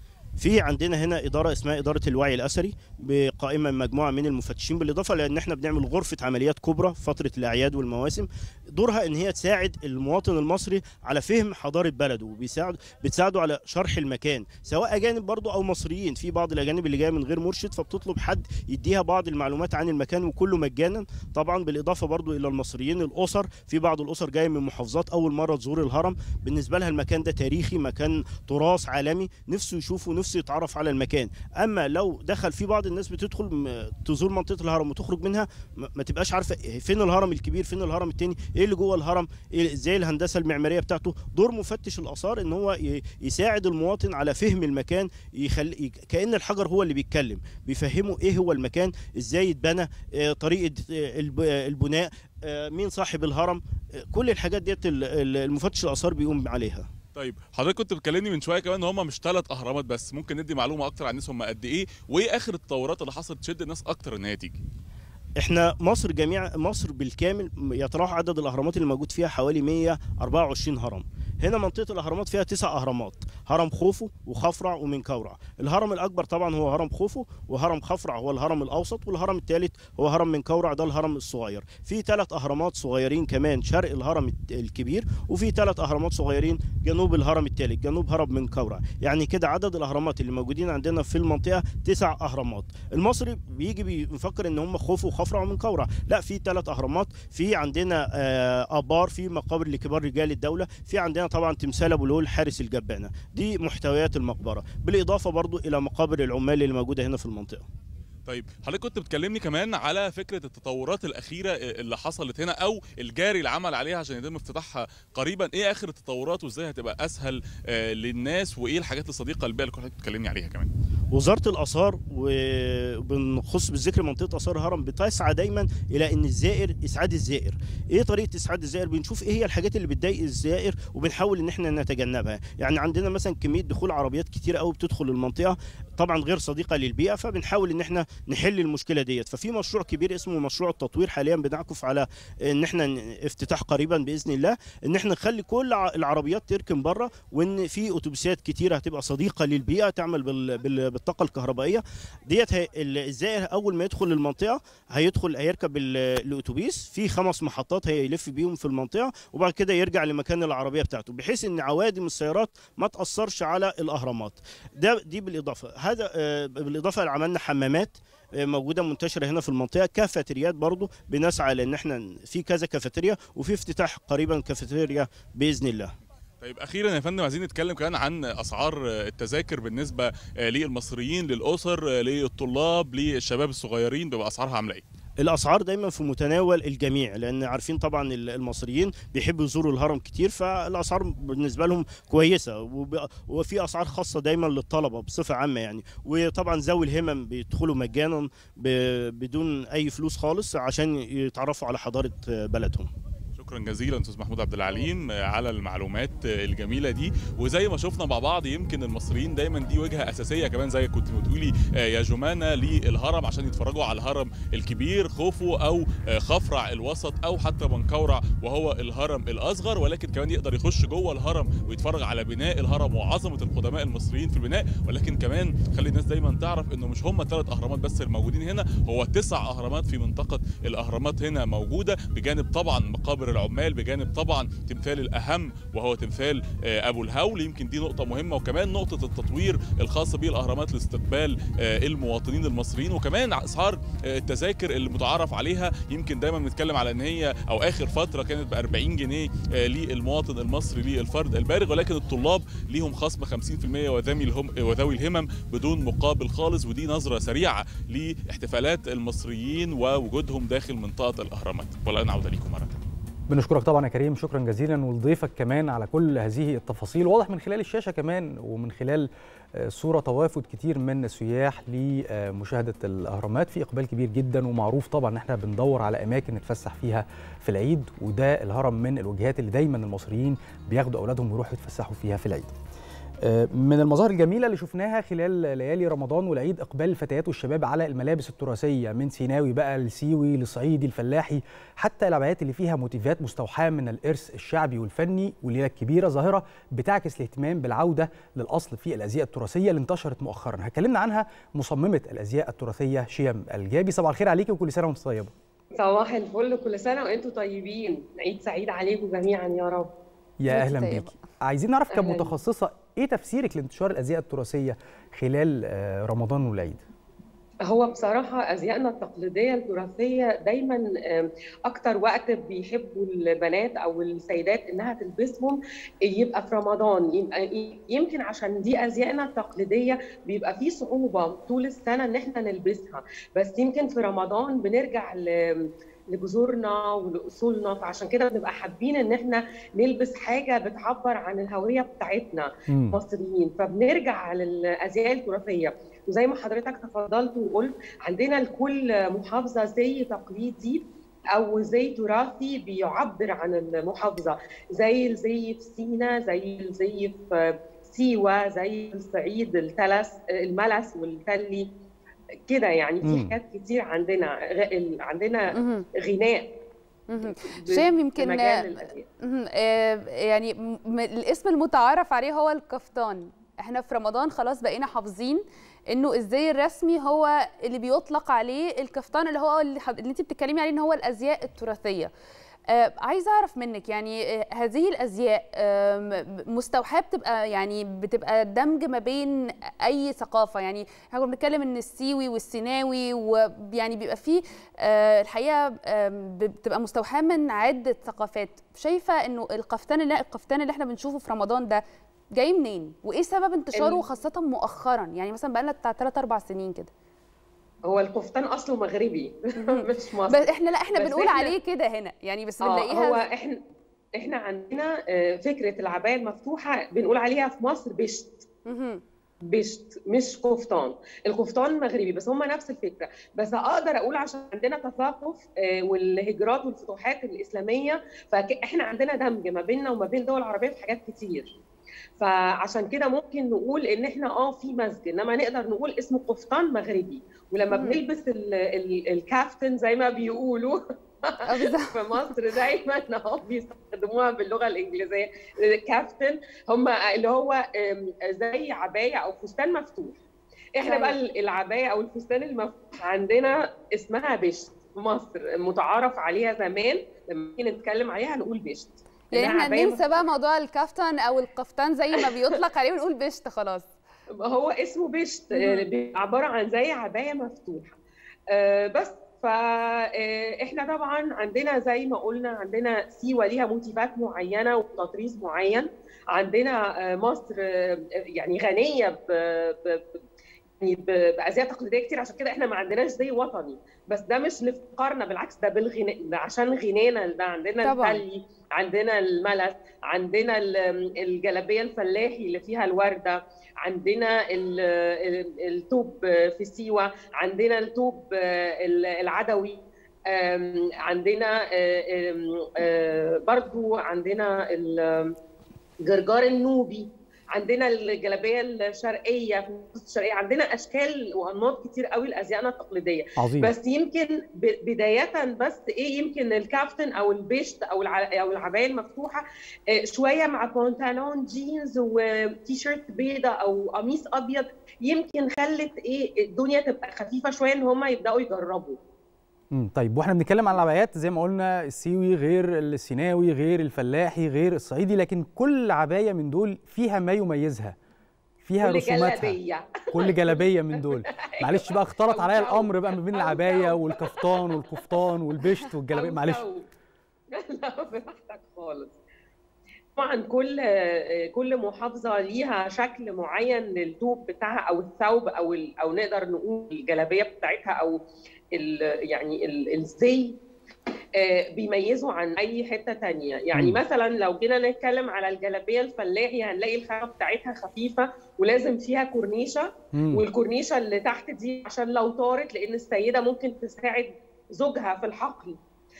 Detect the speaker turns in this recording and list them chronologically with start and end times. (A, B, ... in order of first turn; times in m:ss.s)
0:00.4-0:56.8 A
0:57.1-1:04.6 B
1:05.4-1:47.6 A
1:48.3-1:57.4 B
1:58.0-2:00.7 B
2:01.1-2:55.9 A
2:56.4-3:04.8 B
3:05.2-3:22.9 A
3:23.3-4:22.7 B
4:23.3-4:42.5 C
4:43.2-5:05.3 C
5:05.8-5:09.9 D
5:10.4-5:16.8 C
5:10.5-5:11.1 E
5:11.9-5:12.3 D
5:17.7-5:25.6 D
5:26.1-5:35.5 D
5:36.1-5:50.8 D
5:42.7-5:42.9 C
5:51.3-6:01.6 D
6:02.5-6:05.5 D
6:03.0-6:03.3 C
6:05.5-6:05.8 E
6:06.0-6:06.4 D
6:07.1-6:08.6 E
6:07.2-6:09.0 D
6:09.2-6:22.1 E
6:22.7-6:41.8 E
6:42.4-6:46.9 E
6:43.7-6:44.0 D
6:47.8-6:51.5 D
6:49.6-6:53.2 E
6:52.7-6:53.6 D
6:54.2-6:58.3 D
6:58.7-6:59.0 E
6:59.5-7:11.5 D
7:12.2-7:20.8 D
7:17.7-7:18.0 E
7:21.5-7:21.9 E
7:21.9-7:30.2 D
7:30.8-7:40.1 D
7:30.8-7:31.1 E
7:39.3-7:43.9 E
7:44.4-7:48.0 D
7:48.5-8:00.0 D
8:00.8-8:19.8 D
8:07.8-8:08.2 E
8:20.3-8:25.3 D
8:26.0-8:39.4 D
8:33.4-8:33.7 C
8:40.0-8:49.0 D
8:49.7-8:57.9 C
8:58.6-8:59.6 C
8:58.8-9:04.9 D
9:00.1-9:06.6 C
9:06.1-9:06.8 D
9:07.5-9:09.1 D
9:10.2-9:18.2 D
9:18.7-9:20.5 D
9:21.4-9:35.8 D
9:30.1-9:30.4 C